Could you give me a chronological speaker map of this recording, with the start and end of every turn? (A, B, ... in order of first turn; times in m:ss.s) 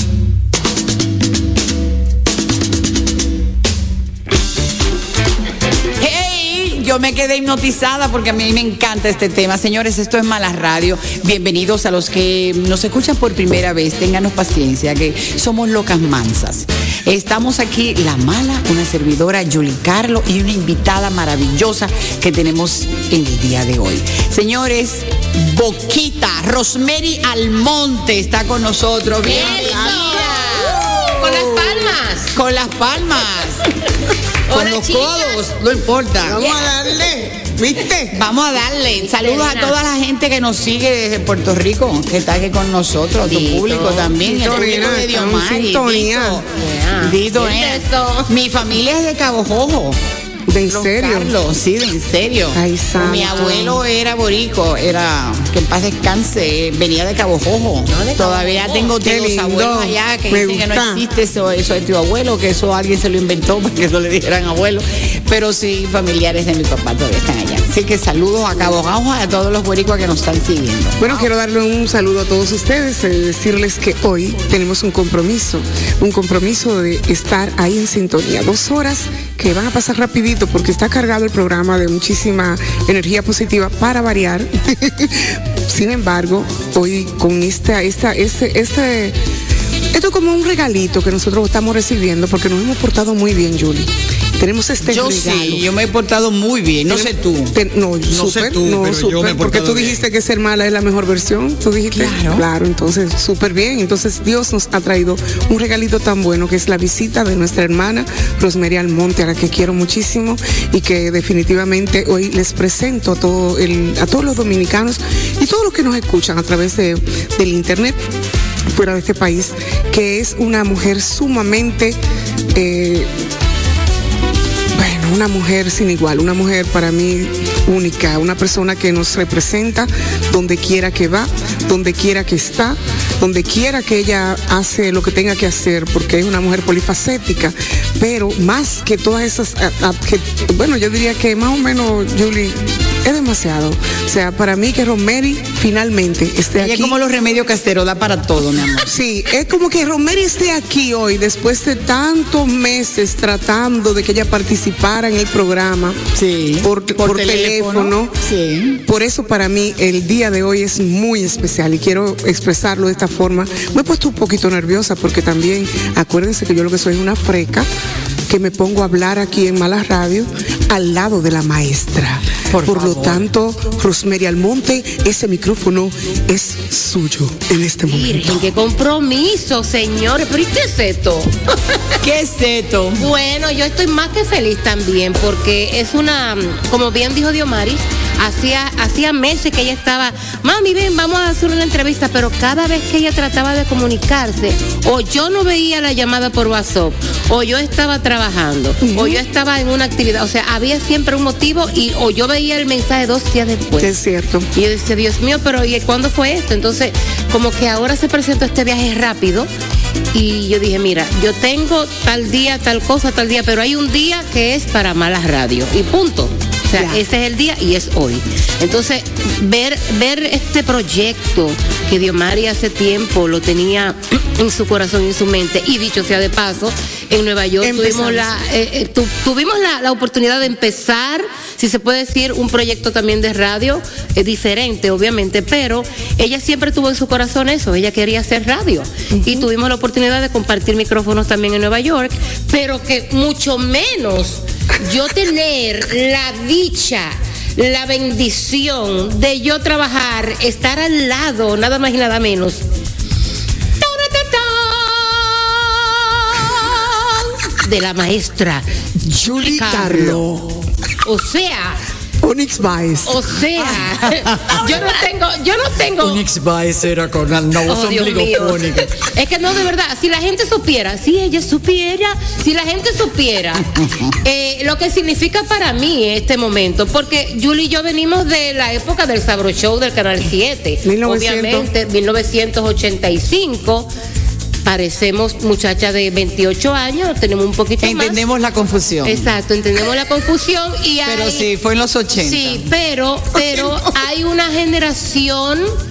0:06.0-0:31.7 A
0:29.2-0:32.3 B
0:32.3-0:33.6 A
0:34.5-0:35.5 B
0:34.5-0:36.6 A
0:36.2-0:38.2 C
0:38.1-0:50.0 A
0:39.0-0:39.8 B
0:43.2-0:44.2 B
0:44.2-0:46.4 C
0:46.5-0:48.3 B
0:50.5-0:51.3 C
0:50.7-1:11.3 A
0:52.5-0:53.8 C
0:57.9-0:59.0 B
0:59.0-1:01.0 C
1:11.0-1:29.2 C
1:29.9-1:35.6 C
1:34.8-1:37.5 A
1:36.9-1:58.0 C
1:38.1-1:40.0 A
1:41.9-1:42.4 A
1:58.7-2:02.0 C
2:02.5-2:03.1 C
2:04.7-2:26.9 C
2:26.6-2:28.9 A
2:28.8-2:36.0 C
2:36.1-2:38.8 A
2:36.6-2:38.1 C
2:38.8-2:47.7 C
2:48.3-2:58.5 C
2:52.5-2:53.3 A
2:57.9-3:02.0 B
3:02.0-3:03.0 A
3:03.0-3:23.9 B
3:18.8-3:19.2 C
3:23.8-3:24.5 C
3:24.5-3:29.5 B
3:30.1-4:12.6 B
3:36.7-3:37.0 C
3:47.6-3:48.3 C
3:59.2-3:59.4 C
4:13.8-4:20.2 B
4:19.1-4:20.6 C
4:21.0-4:21.8 B
4:22.2-4:23.2 C
4:23.0-4:26.2 B
4:23.6-4:24.8 A
4:26.0-4:29.0 A
4:27.6-4:33.7 B
4:33.6-4:34.2 A
4:34.2-4:43.9 B
4:40.8-4:41.7 C
4:44.6-4:48.2 B
4:47.8-4:49.2 A
4:49.0-4:51.5 B
4:51.0-4:52.7 A
4:52.2-4:55.7 B
4:53.4-4:53.7 C